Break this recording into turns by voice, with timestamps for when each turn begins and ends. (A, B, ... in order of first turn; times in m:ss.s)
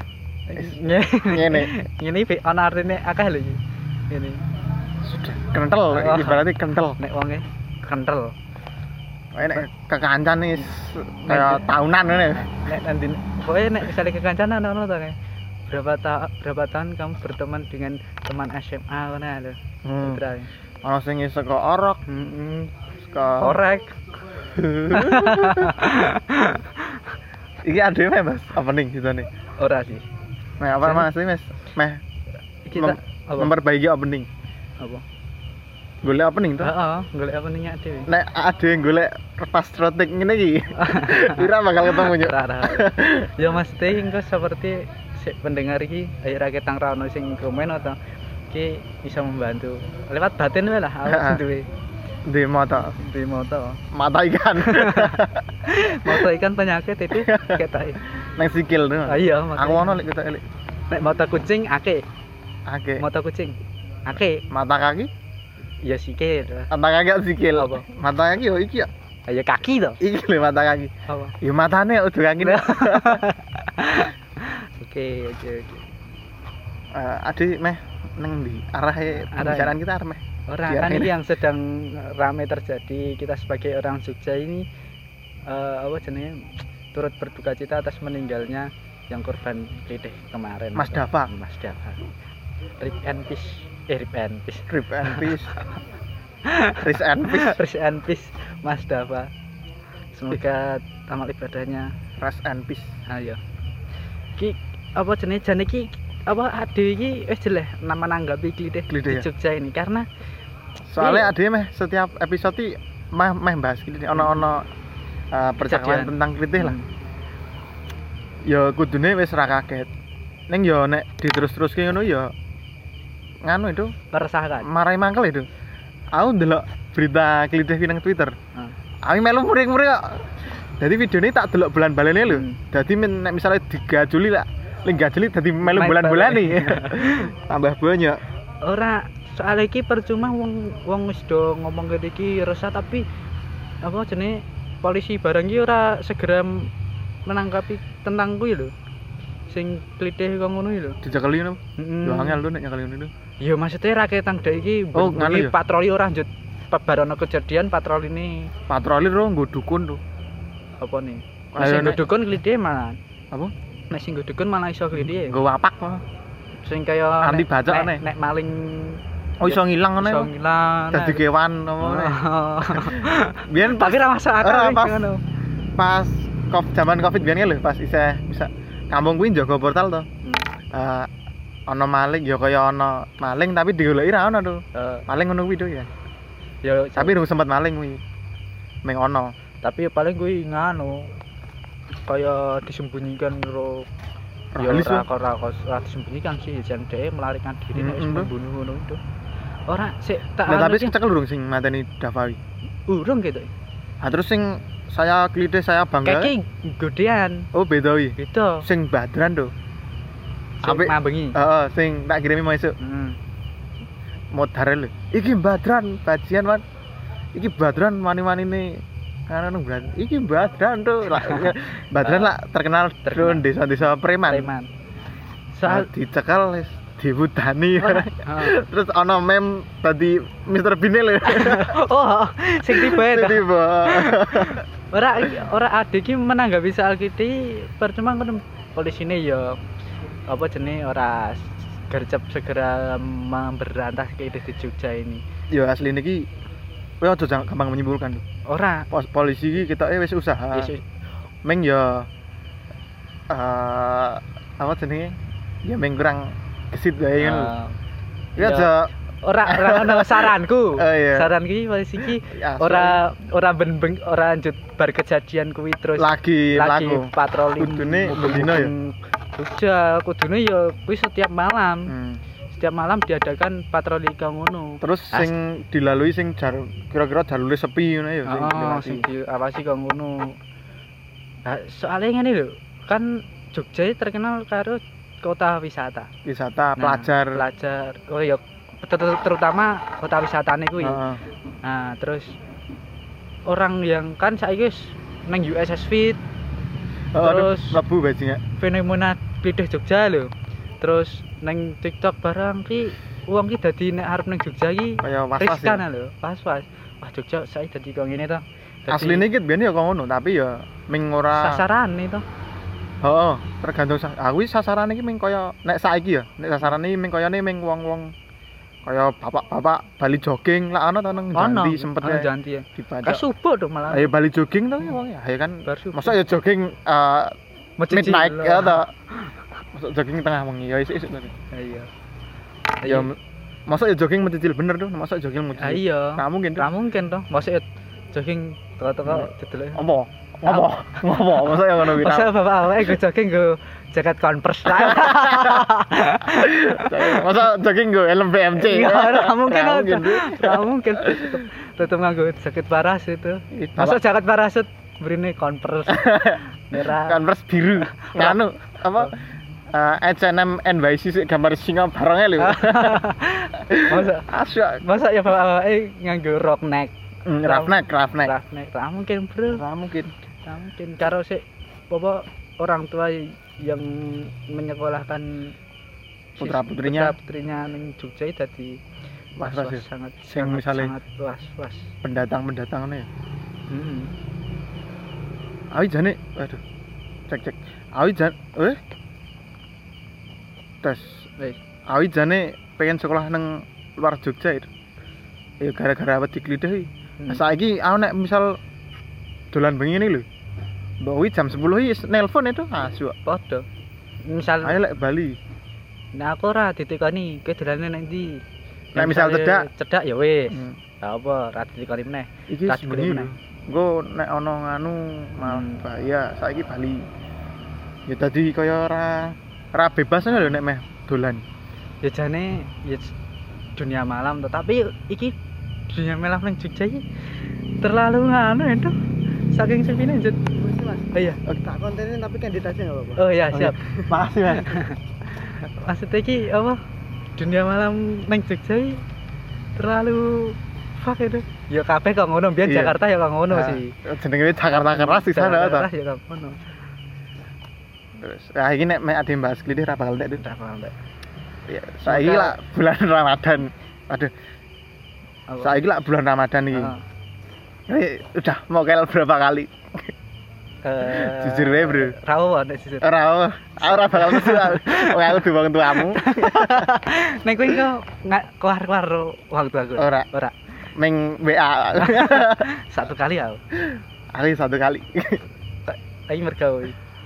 0:00.5-0:03.6 A
0:00.6-0:01.8 B
0:04.1-0:04.4 A
0:05.0-0:07.0 B
0:05.9-0:06.5 A
0:07.0-0:08.4 A
0:09.4-0:12.5 B
0:11.3-0:15.2 A
0:15.7-0:20.5 A
0:19.8-0:20.2 B
0:20.8-0:22.0 B
0:22.0-0:22.7 A
0:23.1-0:23.6 B
0:23.4-0:24.0 A
0:24.5-0:25.8 B
0:24.9-0:27.1 A
0:27.6-0:29.3 B
0:29.6-0:30.1 A
0:30.6-0:32.0 B
0:30.8-0:31.1 A
0:32.7-0:33.5 A
0:32.8-0:34.3 B
0:36.0-0:36.7 B
0:36.6-0:38.1 A
0:38.1-0:43.3 B
0:40.8-0:48.0 A
0:48.5-0:51.7 A
0:51.1-0:51.4 B
0:52.3-0:53.0 B
0:53.0-0:53.8 A
0:53.9-0:56.3 B
0:54.6-0:58.0 A
0:57.1-0:57.6 B
0:58.4-1:00.4 B
0:59.1-1:00.0 A
1:00.9-1:02.0 A
1:02.7-1:03.0 B
1:03.0-1:04.4 A
1:04.5-1:05.1 B
1:05.8-1:06.7 A
1:06.7-1:08.9 B
1:07.6-1:07.9 A
1:09.3-1:10.0 A
1:10.0-1:13.2 B
1:11.1-1:11.4 A
1:12.4-1:15.9 A
1:16.9-1:21.1 B
1:19.3-1:19.8 A
1:20.5-1:24.7 A
1:25.5-1:32.0 A
1:30.8-1:31.3 B
1:32.8-1:35.7 A
1:34.7-1:35.5 B
1:36.4-1:39.3 A
1:36.8-1:37.6 B
1:40.1-1:41.9 A
1:42.2-1:42.9 B
1:43.1-1:43.4 A
1:44.4-1:50.1 A
1:48.9-1:49.3 B
1:50.9-1:54.7 B
1:51.0-1:51.3 A
1:54.1-1:54.4 A
1:55.3-1:56.8 B
1:55.6-1:56.8 A
1:58.5-1:59.9 B
2:00.5-2:02.3 B
2:03.4-2:03.9 B
2:04.1-2:04.7 A
2:04.6-2:05.5 B
2:06.2-2:08.4 B
2:09.1-2:10.3 B
2:10.8-2:18.2 B
2:12.3-2:12.6 A
2:15.6-2:17.3 A
2:18.6-2:23.1 A
2:23.8-2:26.7 A
2:27.3-2:28.7 A
2:29.5-2:31.0 A
2:31.0-2:33.1 B
2:31.8-2:32.4 A
2:33.4-2:38.5 A
2:34.9-2:35.6 B
2:38.7-2:40.0 B
2:40.8-2:43.0 A
2:41.5-2:42.0 B
2:43.9-2:45.4 A
2:45.0-2:46.0 B
2:46.6-2:51.2 A
2:47.2-2:48.0 B
2:49.4-2:50.3 B
2:50.9-2:55.1 B
2:51.8-2:55.2 A
2:55.8-3:00.1 B
3:00.2-3:00.5 A
3:00.7-3:01.1 B
3:01.7-3:05.9 B
3:04.7-3:05.1 A
3:06.6-3:07.2 A
3:07.0-3:08.0 B
3:08.8-3:09.3 B
3:09.6-3:11.1 A
3:12.1-3:13.9 A
3:14.6-3:15.1 B
3:14.6-3:19.0 A
3:17.7-3:18.3 B
3:19.7-3:21.0 A
3:20.5-3:22.4 B
3:22.9-3:23.5 A
3:24.0-3:26.3 B
3:26.0-3:27.5 A
3:27.5-3:29.5 B
3:28.2-3:28.7 A
3:30.6-3:31.4 A
3:30.6-3:32.8 B
3:32.8-3:33.2 A
3:34.3-3:36.6 B
3:37.4-3:44.5 B
3:41.1-3:42.3 A
3:43.0-3:43.5 A
3:44.3-3:44.7 A
3:45.6-3:45.9 A
3:45.7-3:51.8 B
3:47.8-3:48.6 A
3:51.2-3:59.6 A
3:52.7-3:54.6 B
4:00.3-4:05.2 A
4:05.5-4:06.3 B
4:07.0-4:08.2 B
4:08.5-4:08.9 A
4:08.9-4:10.7 B
4:10.5-4:10.8 A
4:11.4-4:12.1 B
4:13.3-4:17.5 B
4:17.2-4:17.8 A
4:18.4-4:18.7 A
4:18.4-4:18.9 B
4:19.2-4:31.9 A
4:19.5-4:21.3 B
4:22.2-4:23.0 B
4:26.0-4:28.7 B
4:31.9-4:32.2 B
4:32.5-4:35.3 A
4:34.8-4:39.1 B
4:38.2-4:40.4 A
4:41.4-4:46.1 A
4:46.2-4:47.4 B
4:46.8-4:51.0 A
4:50.8-4:51.2 B
4:51.6-4:52.3 A
4:53.5-4:56.2 A
4:57.1-4:58.4 B
4:57.2-4:57.8 A
4:58.6-5:09.3 A
5:05.0-5:05.8 B
5:08.9-5:11.6 B
5:11.3-5:12.2 A
5:13.0-5:18.1 B
5:18.8-5:23.2 B
5:21.4-5:24.1 A
5:23.9-5:27.3 B
5:25.7-5:26.2 A
5:27.8-5:29.3 A
5:27.9-5:28.9 B
5:29.7-5:31.3 B
5:31.5-5:31.9 A
5:32.8-5:33.1 A
5:32.8-5:33.2 B
5:33.7-5:36.7 B
5:35.6-5:39.8 A
5:39.1-5:42.4 B
5:41.4-5:47.3 A
5:44.7-5:45.7 B
5:46.3-5:51.4 B
5:48.6-5:57.2 A
5:53.5-5:54.0 B
5:55.9-5:59.1 B
5:57.9-5:58.4 A
5:59.7-6:03.1 B
6:02.4-6:04.3 A
6:03.7-6:04.8 B
6:04.8-6:06.9 A
6:07.3-6:08.3 B
6:07.4-6:09.6 A
6:09.5-6:10.1 B
6:10.5-6:15.6 A
6:16.4-6:17.2 B
6:16.4-6:18.8 A
6:19.4-6:20.9 B
6:19.4-6:21.9 A
6:22.0-6:23.1 B
6:23.7-6:24.1 A
6:25.7-6:26.6 B
6:27.3-6:28.8 B
6:30.8-6:31.2 B
6:31.9-6:34.7 B
6:35.6-6:38.6 B
6:39.5-6:40.3 B
6:41.0-6:43.2 B
6:43.3-6:43.6 A
6:44.3-6:44.8 A
6:44.6-6:45.4 B
6:46.2-6:48.4 A
6:49.0-6:49.7 B
6:49.0-6:53.3 A
6:50.5-6:50.8 B
6:52.5-6:57.1 B
6:55.4-6:55.8 A
6:58.1-7:01.4 B
7:02.0-7:03.1 A
7:03.8-7:05.4 A
7:05.9-7:07.0 A
7:07.8-7:09.0 A
7:09.5-7:10.5 A
7:10.6-7:13.2 C
7:11.1-7:11.4 A
7:13.2-7:13.9 A
7:13.5-7:14.8 B
7:14.5-7:16.8 A
7:17.4-7:19.0 A
7:19.8-7:24.0 A
7:22.6-7:23.0 B
7:23.5-7:25.9 B
7:24.7-7:26.6 A
7:28.2-7:30.4 B
7:30.4-7:30.9 A
7:31.7-7:34.3 B
7:32.0-7:32.6 A
7:35.5-7:35.8 A
7:35.6-7:36.9 B
7:36.7-7:37.0 A
7:37.9-7:40.1 B
7:40.8-7:43.1 A
7:41.0-7:42.2 B
7:43.0-7:46.9 B
7:43.8-7:45.4 A
7:46.0-7:50.6 A
7:50.0-7:50.3 B
7:51.0-7:52.7 B
7:52.0-7:53.6 A
7:53.8-7:55.4 B
7:55.9-7:57.0 A